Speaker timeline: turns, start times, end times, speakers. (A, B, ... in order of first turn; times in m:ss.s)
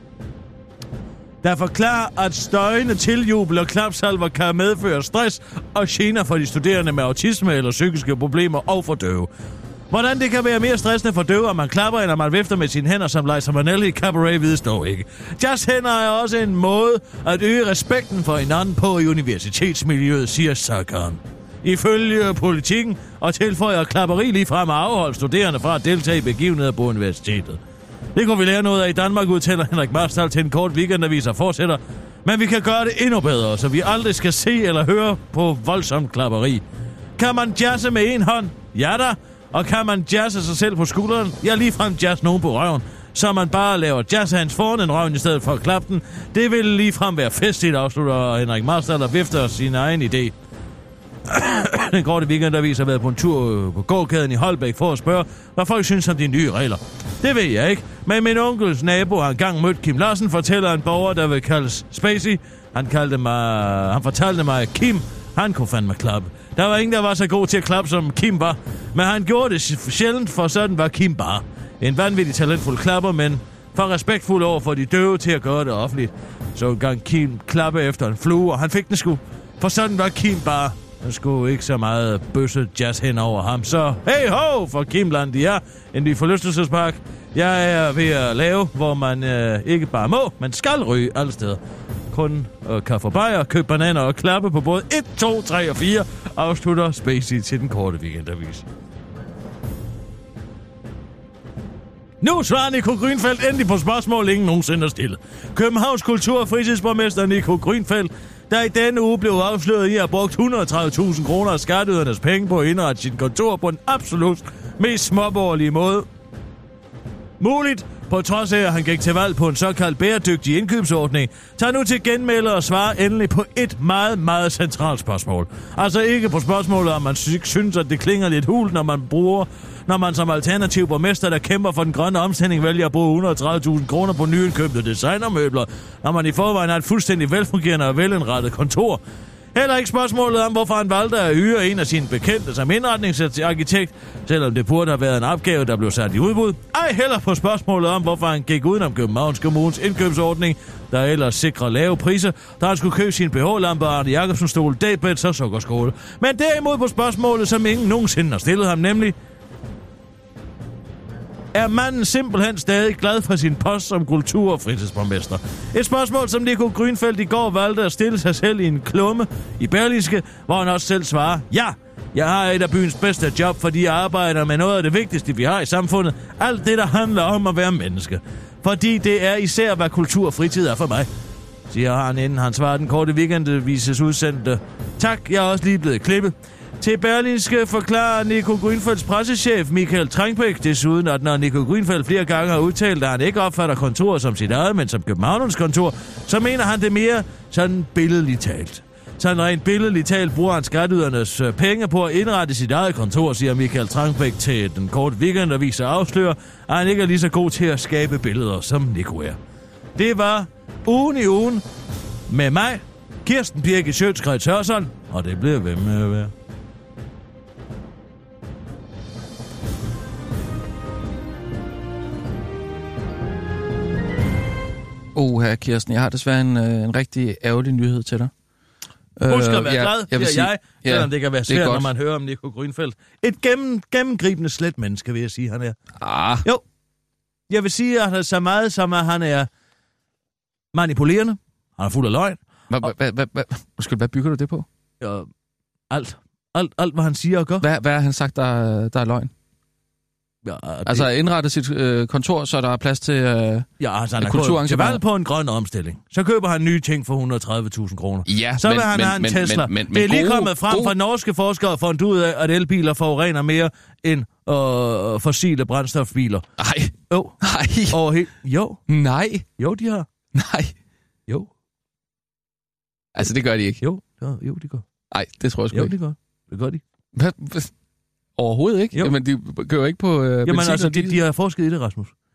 0:01.4-0:09.3 A
0:09.9-0:27.6 A
0:28.2-0:36.6 A
0:37.2-0:50.3 A
0:51.3-1:31.6 A
1:32.1-1:38.6 A
1:42.2-1:56.1 A
1:57.4-2:19.0 A
2:19.6-2:39.2 A
2:41.5-3:01.1 A
3:01.7-3:29.4 A
3:30.0-3:31.6 A
3:32.3-3:36.3 A
3:45.2-3:48.3 B
3:49.2-3:51.9 B
3:49.3-3:55.8 A
3:56.0-3:56.5 B
3:57.5-3:59.5 A
4:00.7-4:02.4 A
4:02.7-4:04.7 B
4:05.0-4:05.3 A
4:05.9-4:07.6 A
4:07.6-4:09.3 B
4:10.4-4:11.1 A
4:10.9-4:13.7 B
4:13.8-4:26.5 A
4:14.2-4:15.0 B
4:18.3-4:21.0 B
4:26.6-4:28.0 B
4:27.1-4:27.4 A
4:27.9-4:28.8 A
4:28.9-4:29.5 B
4:29.6-4:30.1 A
4:30.3-4:30.7 B
4:33.2-4:33.8 B
4:33.8-4:34.8 A
4:35.1-4:35.9 B
4:35.7-4:36.8 A
4:37.2-4:37.7 B
4:38.4-4:41.2 B
4:40.4-4:42.1 A